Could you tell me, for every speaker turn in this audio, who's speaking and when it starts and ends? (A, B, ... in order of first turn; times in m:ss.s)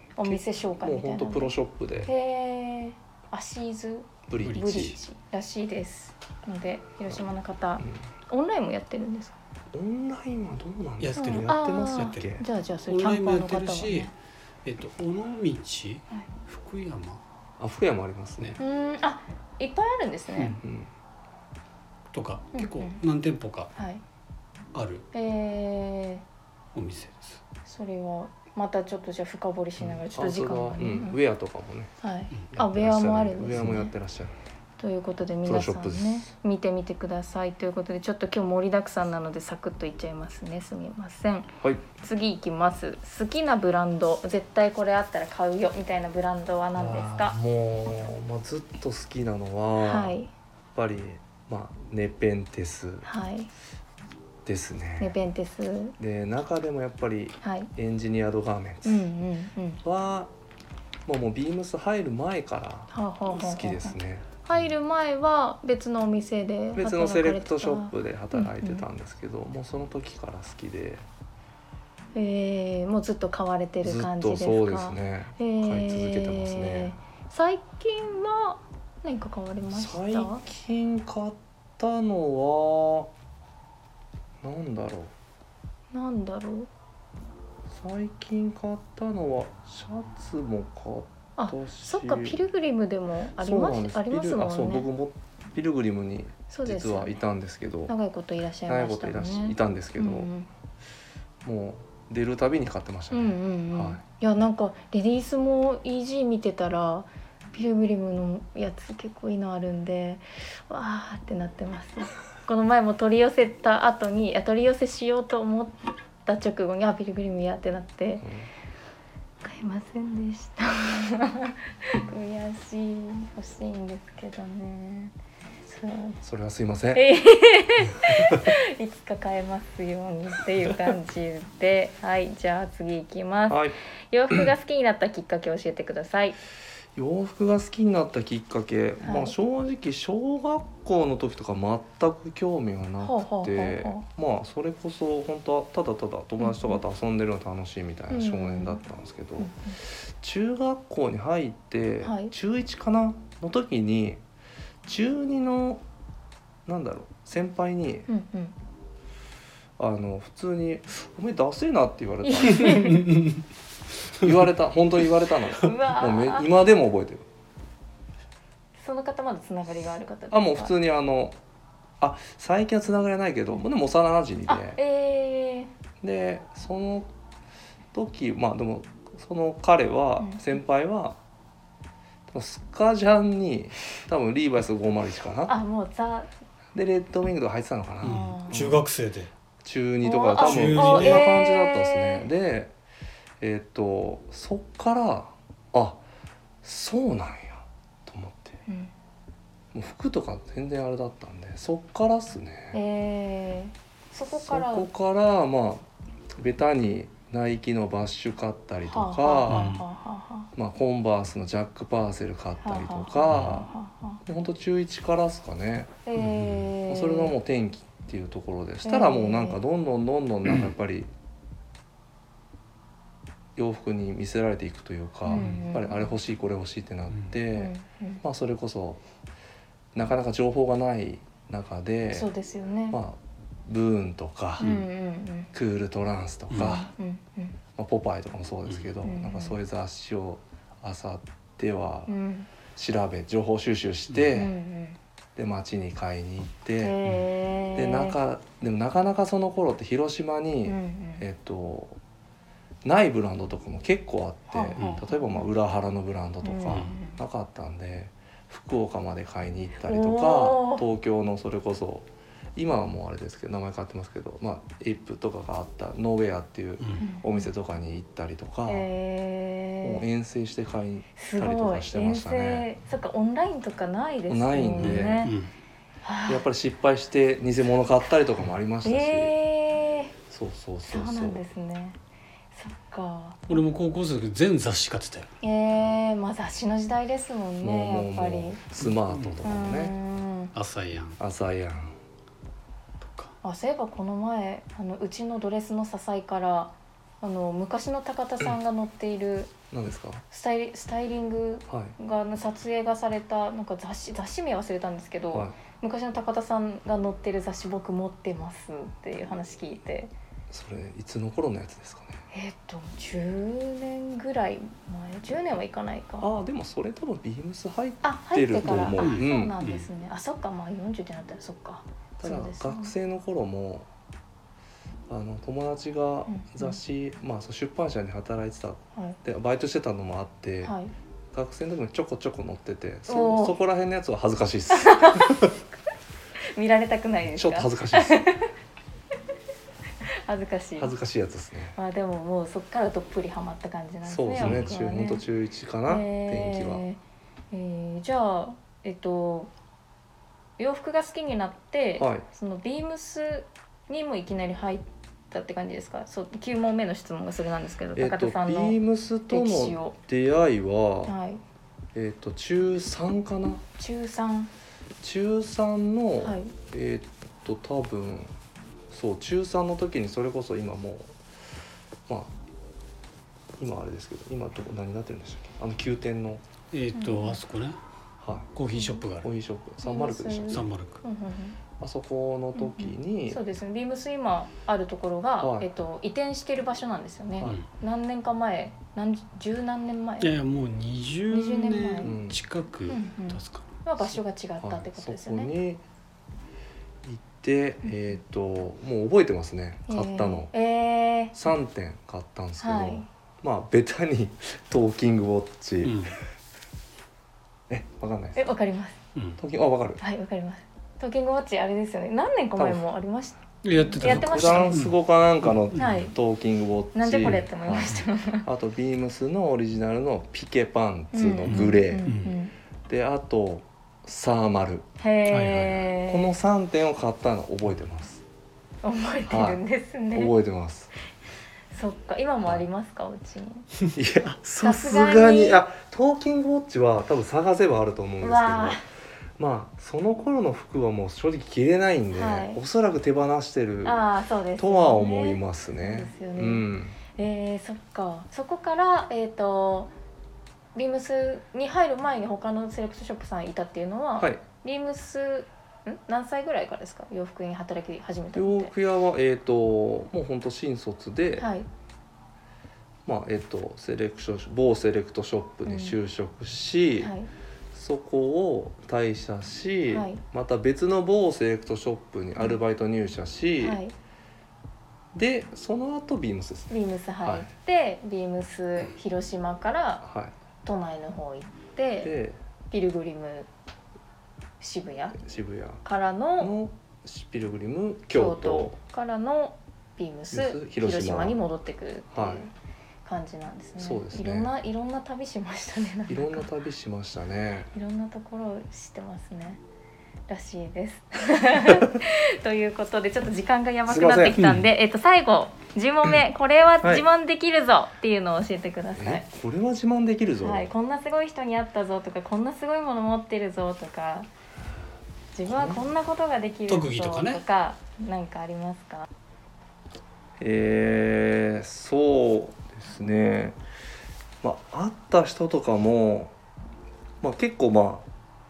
0:00.2-0:09.4 A
0:00.2-0:02.1 B
0:04.3-0:05.0 B
0:04.4-0:05.0 C
0:09.7-0:12.4 B
0:11.0-0:12.3 C
0:11.2-0:14.1 A
0:12.9-0:14.1 C
0:14.6-0:17.2 C
0:17.6-0:18.6 B
0:18.6-0:20.6 A
0:20.4-0:20.6 C
0:20.6-0:20.9 B
0:22.1-0:23.7 C
0:22.5-0:23.0 A
0:23.8-0:24.0 A
0:24.7-0:25.1 C
0:25.1-0:26.2 A
0:26.7-0:27.4 C
0:27.6-0:31.2 A
0:30.0-0:32.0 B
0:32.0-0:33.9 A
0:32.5-0:34.4 B
0:34.8-0:47.4 A
0:35.4-0:36.3 B
0:46.8-0:50.2 B
0:49.8-0:50.3 A
0:50.8-0:53.1 B
0:53.0-0:53.5 A
0:54.4-0:55.2 B
0:55.0-0:56.0 A
0:56.0-0:59.1 B
0:57.4-0:57.7 A
0:58.8-0:59.8 A
0:59.8-1:00.3 B
1:01.1-1:04.3 B
1:02.9-1:08.8 A
1:06.8-1:11.1 B
1:12.2-1:20.4 A
1:13.8-1:17.0 B
1:19.7-1:23.1 B
1:24.4-1:25.1 B
1:25.9-1:26.7 A
1:27.7-1:32.4 B
1:31.4-1:34.9 A
1:33.4-1:37.9 B
1:36.5-1:37.2 A
1:37.9-1:40.5 A
1:38.7-1:40.3 B
1:41.4-1:44.0 B
1:43.1-1:58.3 A
1:58.2-1:58.5 B
1:59.4-2:05.1 A
2:05.7-2:06.2 A
2:06.2-2:07.0 B
2:06.9-2:16.4 A
2:08.1-2:08.4 B
2:13.5-2:13.8 B
2:17.0-2:34.2 B
2:19.0-2:19.4 A
2:23.0-2:24.0 A
2:26.4-2:26.8 A
2:28.1-2:28.8 A
2:29.4-2:29.8 A
2:32.0-2:32.3 A
2:34.8-2:35.8 B
2:36.7-2:38.1 B
2:38.1-2:38.5 A
2:39.8-2:43.0 B
2:42.2-2:43.1 A
2:43.0-2:43.3 C
2:44.2-2:47.3 B
2:45.6-2:46.5 A
2:48.8-2:50.7 A
2:50.3-2:51.4 B
2:52.0-2:54.8 B
2:54.5-2:55.7 A
2:56.0-2:57.1 B
2:57.9-3:01.2 B
3:02.3-3:05.6 B
3:05.5-3:06.3 A
3:06.7-3:08.8 B
3:08.0-3:09.3 C
3:08.0-3:08.8 A
3:09.6-3:12.8 B
3:10.0-3:12.3 A
3:10.4-3:11.3 C
3:13.4-3:16.0 B
3:16.6-3:18.6 B
3:19.7-3:22.8 B
3:22.7-3:24.9 A
3:24.4-3:29.7 B
3:28.9-3:30.5 A
3:29.5-3:29.8 C
3:30.6-3:33.7 B
3:32.6-3:34.2 A
3:33.3-3:33.6 C
3:34.2-3:36.0 B
3:36.1-3:37.3 A
3:36.2-3:36.7 C
3:36.9-3:41.1 B
3:38.8-3:39.6 A
3:43.6-3:49.0 B
3:45.3-3:46.1 A
3:45.3-3:45.7 C
3:47.6-3:48.2 A
3:49.9-3:52.3 B
3:52.1-3:53.0 A
3:52.9-3:54.7 B
3:54.6-3:55.5 A
3:54.6-3:54.9 C
3:55.5-3:56.9 B
3:56.5-3:56.8 C
3:56.6-3:57.6 A
3:57.8-4:02.1 B
3:59.0-3:59.6 A
4:02.1-4:02.5 A
4:02.8-4:04.5 B
4:04.3-4:05.0 A
4:05.4-4:07.0 B
4:06.8-4:08.2 A
4:07.8-4:12.0 B
4:10.7-4:11.2 A
4:12.8-4:28.9 B
4:14.5-4:15.5 A
4:14.8-4:15.0 C
4:16.4-4:17.2 A
4:16.7-4:16.9 C
4:19.8-4:20.8 A
4:27.0-4:27.4 A
4:28.7-4:30.0 A
4:29.8-4:32.7 B
4:31.2-4:35.3 A
4:34.3-4:35.3 B
4:34.8-4:35.5 C
4:36.0-4:36.4 A
4:36.3-4:39.3 B
4:38.8-4:40.1 A
4:40.3-4:41.5 B
4:40.9-4:42.0 A
4:42.5-4:43.6 A
4:43.5-4:45.3 C
4:45.4-4:48.6 A
4:47.6-4:50.0 B
4:48.8-4:49.4 C
4:49.4-4:50.5 A
4:50.5-4:51.2 C
4:51.2-4:52.0 B
4:53.0-4:53.3 C
4:53.4-4:59.5 A
4:59.7-5:00.2 B
5:00.3-5:10.1 A
5:01.7-5:02.0 B
5:05.3-5:05.6 B
5:10.5-5:12.2 B
5:12.3-5:16.3 A
5:16.2-5:19.6 B
5:18.0-5:22.9 A
5:18.6-5:19.9 C
5:22.2-5:23.9 B
5:25.1-5:30.7 B
5:26.3-5:26.8 A
5:30.6-5:30.9 A
5:31.3-5:35.5 B
5:33.1-5:33.6 A
5:34.7-5:35.4 A
5:36.6-5:38.5 A
5:37.3-5:38.3 B
5:40.0-5:40.9 A
5:40.8-5:41.8 B
5:41.8-5:45.2 A
5:44.0-5:46.8 B
5:44.4-5:44.7 C
5:45.9-5:47.0 A
5:47.5-5:49.5 A
5:50.6-5:58.8 A
5:52.0-5:52.3 B
5:58.0-6:01.2 B
5:59.3-6:00.0 A
6:01.1-6:01.4 A
6:02.0-6:03.6 B
6:03.8-6:04.5 A
6:05.0-6:08.4 B
6:06.2-6:06.5 A
6:08.9-6:11.1 B
6:12.1-6:12.3 B
6:13.6-6:16.4 B
6:16.7-6:17.8 C
6:17.0-6:17.4 A
6:18.2-6:18.5 B
6:18.6-6:19.3 C
6:18.7-6:19.0 A
6:19.2-6:20.7 B
6:19.8-6:21.6 A
6:20.5-6:21.0 C
6:21.8-6:23.4 B
6:22.6-6:30.3 A
6:25.4-6:25.7 B
6:30.2-6:33.7 C
6:31.3-6:32.1 A
6:32.0-6:32.4 B
6:32.9-6:35.5 A
6:34.6-6:35.8 B
6:37.0-6:40.5 B
6:39.9-6:41.4 A
6:41.3-6:46.1 B
6:42.6-6:43.1 A
6:45.8-6:46.1 C
6:47.7-6:48.5 B
6:48.4-6:49.0 A
6:49.4-6:50.0 B
6:50.0-6:54.8 A
6:52.6-6:52.8 B
6:53.6-6:56.0 C
6:54.0-7:02.1 B
6:55.8-6:56.1 A
6:57.0-6:58.5 A
6:57.2-6:58.0 C
7:01.1-7:02.5 A
7:01.5-7:02.3 C
7:02.9-7:04.9 B
7:05.0-7:06.3 A
7:05.3-7:05.9 C
7:06.0-7:08.2 B
7:08.8-7:10.3 A
7:09.3-7:09.6 B
7:10.1-7:10.9 B
7:11.7-7:13.7 A
7:13.9-7:18.8 B
7:14.6-7:15.6 A
7:18.2-7:18.8 A
7:19.4-7:24.0 B
7:22.1-7:22.6 A
7:23.8-7:29.9 A
7:24.6-7:27.0 B
7:30.8-7:38.7 A
7:34.2-7:34.4 B
7:38.3-7:41.5 B
7:41.4-7:41.7 A
7:43.1-7:47.1 B
7:45.7-7:46.0 A
7:47.0-7:47.3 A
7:47.7-7:53.8 B
7:49.9-7:50.2 A
7:53.6-7:53.9 A
7:55.1-7:57.5 B
7:56.7-8:00.0 A
8:00.0-8:00.3 B
8:00.6-8:02.1 A
8:02.0-8:02.4 B
8:02.7-8:03.5 A
8:04.6-8:05.2 A
8:05.2-8:05.8 B
8:05.8-8:06.5 A
8:06.4-8:08.8 B
8:08.1-8:12.5 A
8:10.3-8:11.4 B
8:12.1-8:12.4 B
8:13.1-8:16.5 A
8:13.8-8:14.5 B
8:16.1-8:17.7 B
8:17.7-8:19.6 A
8:20.3-8:29.2 A
8:23.9-8:24.4 B
8:24.4-8:24.6 C
8:26.8-8:27.1 B
8:29.0-8:30.7 B
8:30.4-8:34.3 A
8:35.3-8:39.1 A
8:35.5-8:35.8 B
8:36.7-8:37.4 C
8:40.4-8:43.6 B
8:44.4-8:46.3 B
8:47.2-8:48.1 B